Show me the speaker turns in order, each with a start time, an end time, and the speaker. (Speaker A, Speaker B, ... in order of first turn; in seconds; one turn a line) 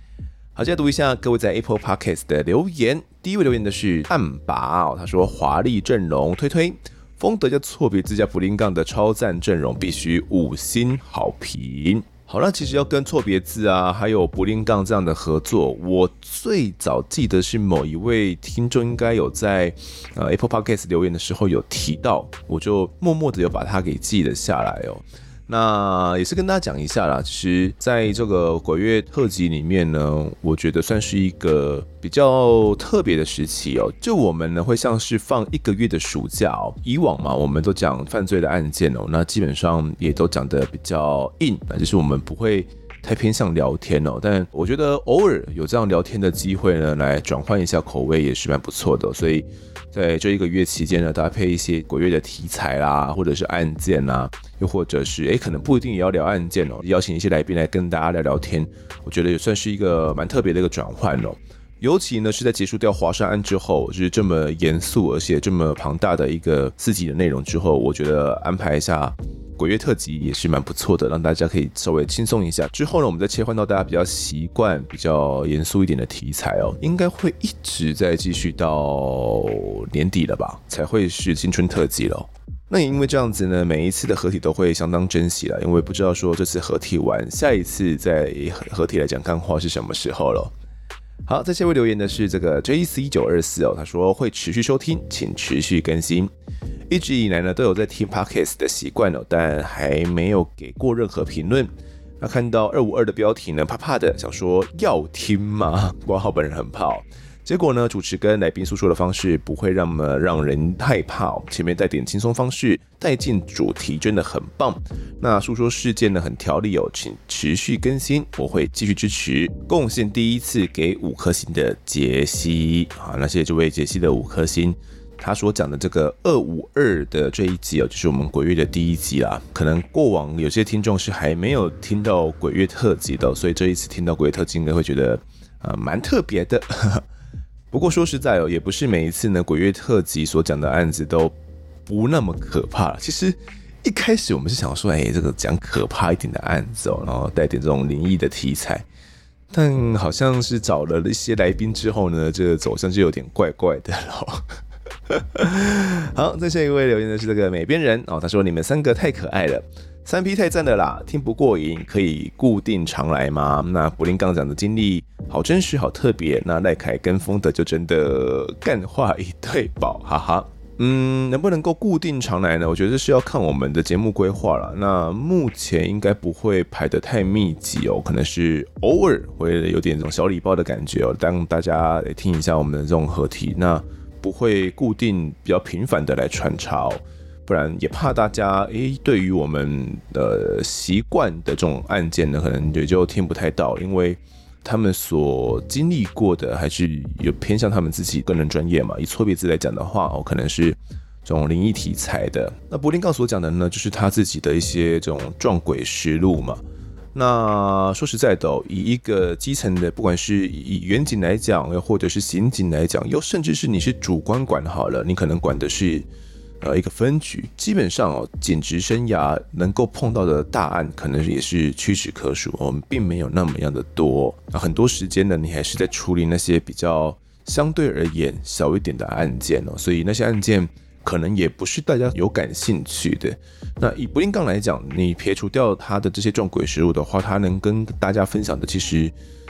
Speaker A: 0.6-90.5
Speaker A: 91.3-96.3
Speaker A: 96.9-137.0
Speaker A: 137.7-141.3
Speaker A: 141.9-148.8
Speaker A: 149.5-154.4
Speaker A: 155.1-206.6
Speaker A: 207.1-216.1
Speaker A: 216.6-239.1